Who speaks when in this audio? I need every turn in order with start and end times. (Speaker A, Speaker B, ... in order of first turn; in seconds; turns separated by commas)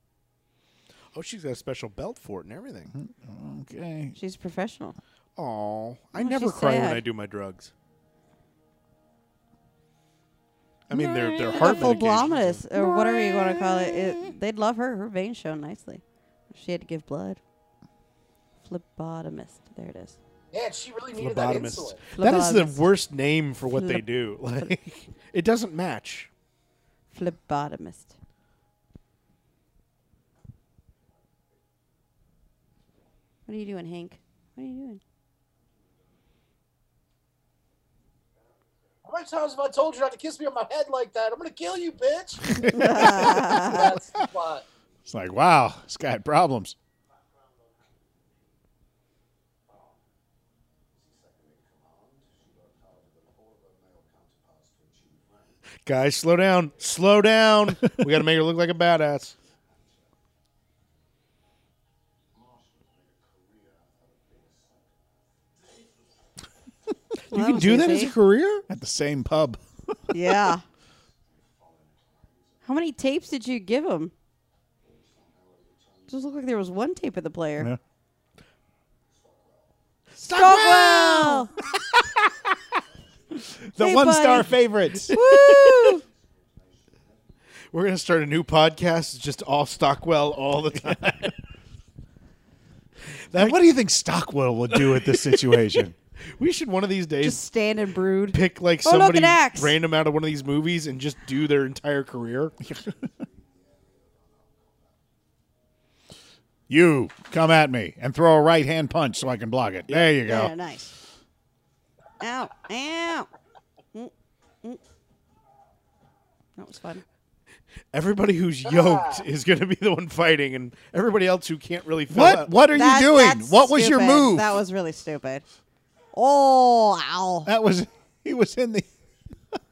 Speaker A: 1.1-2.9, Speaker B: 2.9-4.2, Speaker C: 4.2-5.0, Speaker A: 5.4-7.7, Speaker C: 6.2-7.0, Speaker A: 10.9-12.6, Speaker B: 10.9-12.0, Speaker C: 10.9-17.4, Speaker B: 12.8-14.0, Speaker C: 18.6-20.2, Speaker D: 20.5-22.0, Speaker A: 21.2-26.3, Speaker C: 22.1-22.9, Speaker C: 23.7-24.1, Speaker C: 27.1-28.1, Speaker C: 33.5-35.0, Speaker D: 39.0-44.6, Speaker C: 42.6-44.0, Speaker B: 45.1-46.8, Speaker A: 55.9-59.3, Speaker A: 67.3-68.7, Speaker C: 67.3-68.1, Speaker B: 68.7-70.0, Speaker C: 70.1-70.6, Speaker C: 72.6-74.1, Speaker C: 76.1-77.7, Speaker A: 80.2-81.6, Speaker C: 80.3-81.5, Speaker B: 83.6-85.2, Speaker C: 83.8-84.5, Speaker C: 85.1-86.0, Speaker A: 85.1-85.9, Speaker A: 87.7-91.3, Speaker A: 93.2-93.6, Speaker B: 93.4-96.0, Speaker A: 94.7-97.4, Speaker C: 97.2-99.8, Speaker A: 98.3-102.6, Speaker B: 102.7-103.0, Speaker B: 106.7-110.5, Speaker C: 110.2-110.9, Speaker C: 112.2-113.3, Speaker C: 116.6-117.0, Speaker A: 117.9-122.5, Speaker D: 118.7-119.2, Speaker B: 122.1-124.6, Speaker C: 122.7-125.4, Speaker C: 126.1-127.5, Speaker B: 127.5-128.9